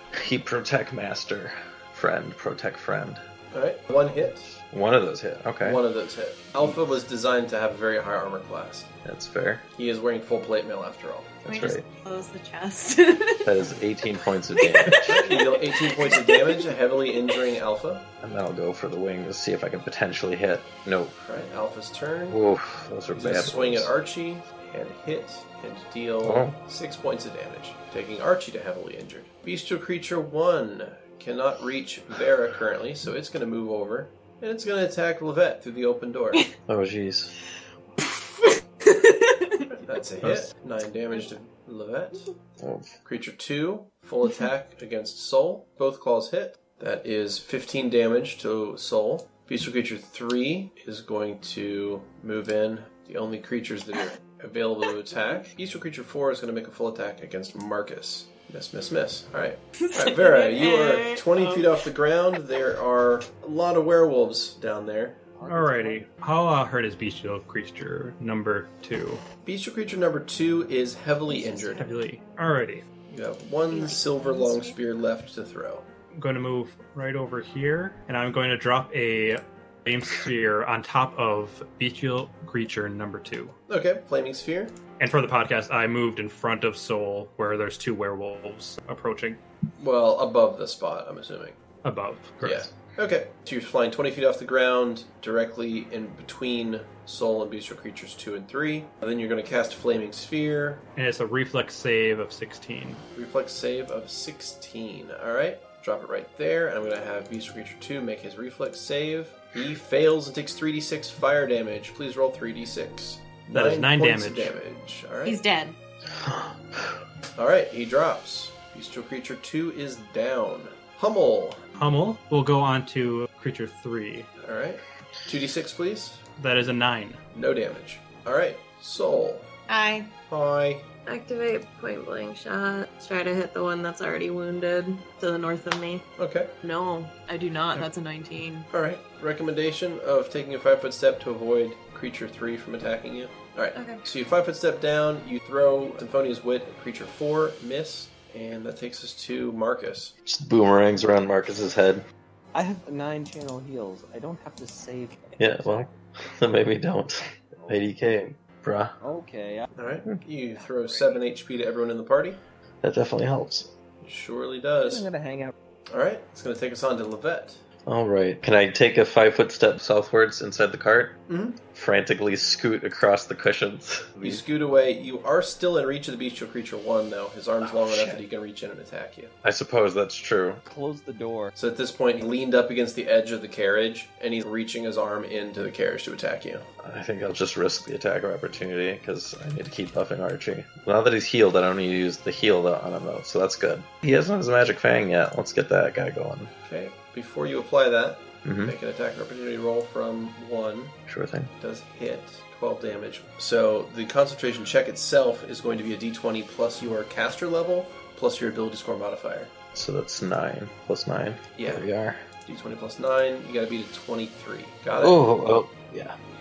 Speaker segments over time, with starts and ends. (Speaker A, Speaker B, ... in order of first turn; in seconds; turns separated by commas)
Speaker A: 0.1-3.2, Speaker B: 3.5-4.5, Speaker A: 4.6-5.8, Speaker B: 5.6-8.9, Speaker A: 9.0-9.6, Speaker B: 9.8-11.4, Speaker A: 11.4-11.8, Speaker C: 11.4-13.5, Speaker A: 13.4-15.3, Speaker C: 14.6-16.7, Speaker B: 15.0-18.1, Speaker A: 18.2-21.2, Speaker B: 21.2-22.4, Speaker A: 22.3-23.9, Speaker B: 23.1-36.4, Speaker A: 26.2-26.5, Speaker A: 36.7-37.3, Speaker C: 38.4-39.6, Speaker B: 39.8-42.3, Speaker A: 40.2-40.5, Speaker A: 42.6-42.9, Speaker B: 43.0-65.2, Speaker C: 59.8-61.8, Speaker D: 65.3-66.1, Speaker E: 65.5-69.2, Speaker B: 69.4-71.9, Speaker C: 71.3-71.9, Speaker E: 71.8-72.8, Speaker B: 73.1-75.8, Speaker C: 73.7-74.8, Speaker E: 76.1-83.5, Speaker B: 83.7-84.7, Speaker E: 85.0-89.4, Speaker B: 89.8-91.6, Speaker E: 91.8-92.4, Speaker A: 92.4-92.7, Speaker B: 92.4-100.8, Speaker E: 101.0-103.0, Speaker B: 103.1-115.4, Speaker E: 113.5-114.5, Speaker C: 115.2-115.8, Speaker A: 116.1-117.0, Speaker B: 117.3-121.6, Speaker E: 121.8-124.3, Speaker B: 124.4-126.2, Speaker E: 126.4-127.2, Speaker B: 127.3-129.5, Speaker C: 129.7-130.1, Speaker B: 130.3-130.9, Speaker C: 131.1-136.0, Speaker B: 136.2-136.5, Speaker C: 136.6-138.7, Speaker B: 138.7-150.1, Speaker C: 143.7-144.0, Speaker A: 150.2-152.0, Speaker D: 152.5-155.9, Speaker A: 155.4-158.9, Speaker D: 157.5-157.9, Speaker D: 159.0-159.7, Speaker B: 159.8-162.4, Speaker D: 160.6-161.2, Speaker A: 162.8-163.7, Speaker B: 164.0-165.1, Speaker D: 164.8-165.5, Speaker B: 165.9-167.6, Speaker A: 167.8-171.2, Speaker B: 171.3-171.6, Speaker A: 171.7-174.4, Speaker B: 174.2-179.3, Speaker A: 177.6-178.2, Speaker A: 179.4-180.6, Speaker D: 180.7-181.5, Speaker B: 181.6-186.7, Speaker A: 186.8-196.5, Speaker B: 196.6-201.0, Speaker A: 198.4-198.7, Speaker A: 201.1-201.5, Speaker B: 201.6-209.5, Speaker A: 209.7-212.2, Speaker B: 211.6-211.9, Speaker B: 212.4-215.2, Speaker A: 215.0-216.1